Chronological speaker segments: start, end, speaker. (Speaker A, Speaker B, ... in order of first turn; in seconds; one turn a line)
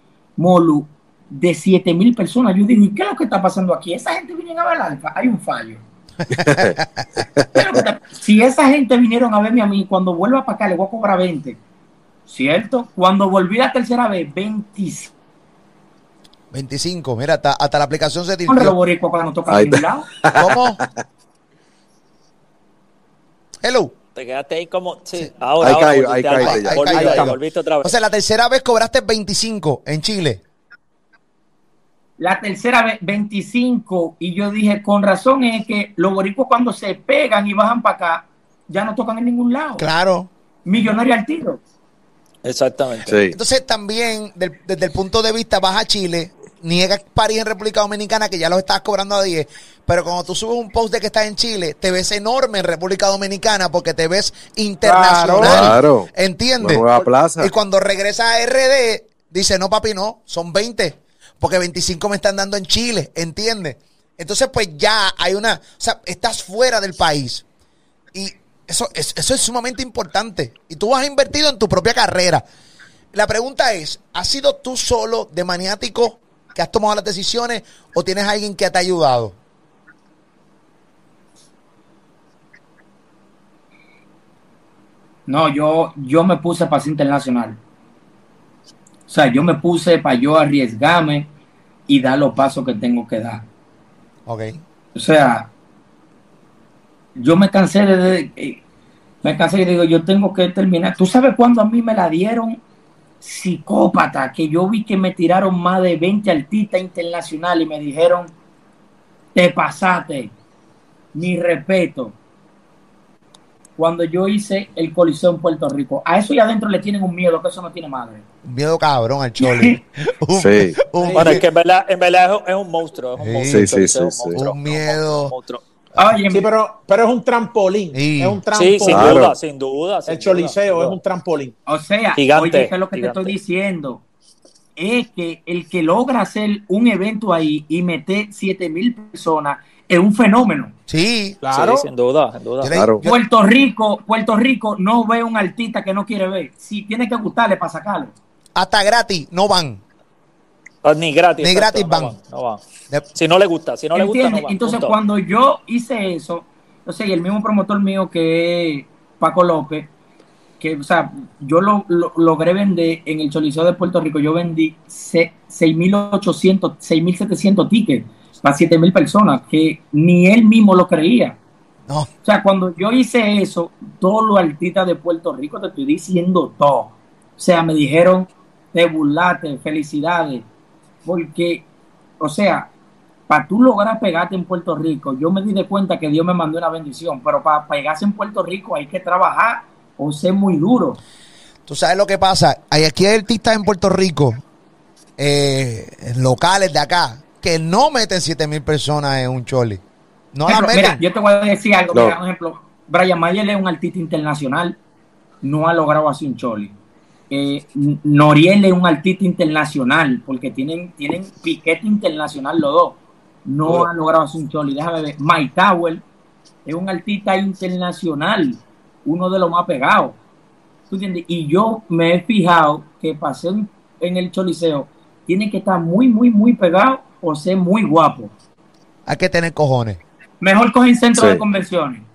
Speaker A: 0.4-5.8
Speaker B: 6.3-7.5
Speaker C: 6.3-7.2
Speaker A: 7.5-11.6
Speaker A: 12.3-15.1
Speaker C: 16.5-18.7
Speaker A: 18.5-20.1
Speaker B: 19.5-20.9
Speaker C: 20.4-20.8
Speaker C: 23.6-23.9
Speaker D: 24.1-27.9
Speaker B: 25.6-27.2
Speaker C: 26.4-30.4
Speaker E: 26.9-27.3
Speaker A: 32.2-39.9
Speaker C: 39.8-40.3
Speaker A: 40.6-41.6
Speaker D: 42.4-43.1
Speaker B: 43.0-43.4
Speaker C: 43.3-56.8
Speaker E: 54.8-55.8
Speaker B: 55.4-56.1
Speaker B: 56.6-57.5
Speaker C: 57.4-67.4
Speaker C: 68.1-72.4
Speaker C: 73.1-79.3
Speaker A: 85.3-87.6
Speaker A: 89.1-91.3
Speaker A: 91.9-93.4
Speaker C: 94.2-94.6
Speaker A: 94.9-95.5
Speaker A: 97.2-98.6
Speaker A: 99.2-102.6
Speaker A: 103.2-108.3
Speaker A: 109.3-110.3
Speaker A: 111.1-112.2
Speaker A: 113.8-118.2
Speaker C: 118.4-121.4
Speaker A: 119.4-119.8
Speaker B: 120.3-120.8
Speaker E: 121.0-121.4
Speaker D: 121.1-125.6
Speaker C: 123.2-123.8
Speaker B: 123.5-124.4
Speaker C: 124.3-125.3
Speaker A: 125.9-126.5
Speaker E: 126.3-129.2
Speaker C: 127.9-128.4
Speaker D: 128.5-131.0
Speaker B: 128.8-129.3
Speaker E: 130.1-131.5
Speaker A: 131.7-134.0
Speaker D: 132.2-133.3
Speaker A: 134.8-140.7
Speaker C: 140.9-141.4
Speaker E: 141.4-141.9
Speaker D: 141.5-142.8
Speaker C: 142.6-143.2
Speaker B: 142.7-143.0
Speaker A: 143.0-148.1
Speaker C: 148.6-149.8
Speaker D: 150.8-152.6
Speaker C: 151.4-152.2
Speaker D: 153.1-154.9
Speaker A: 153.9-159.9
Speaker A: 160.6-171.4
Speaker A: 172.2-180.4
Speaker A: 181.0-181.7
Speaker A: 182.2-182.7
Speaker A: 183.3-191.0
Speaker C: 191.7-194.4
Speaker C: 195.2-199.8
Speaker C: 200.3-201.0
Speaker A: 200.5-204.8
Speaker A: 205.4-206.7
Speaker A: 207.3-216.0
Speaker A: 216.6-220.2
Speaker A: 220.9-228.3
Speaker C: 229.1-230.0
Speaker A: 230.4-232.1
Speaker B: 231.1-231.4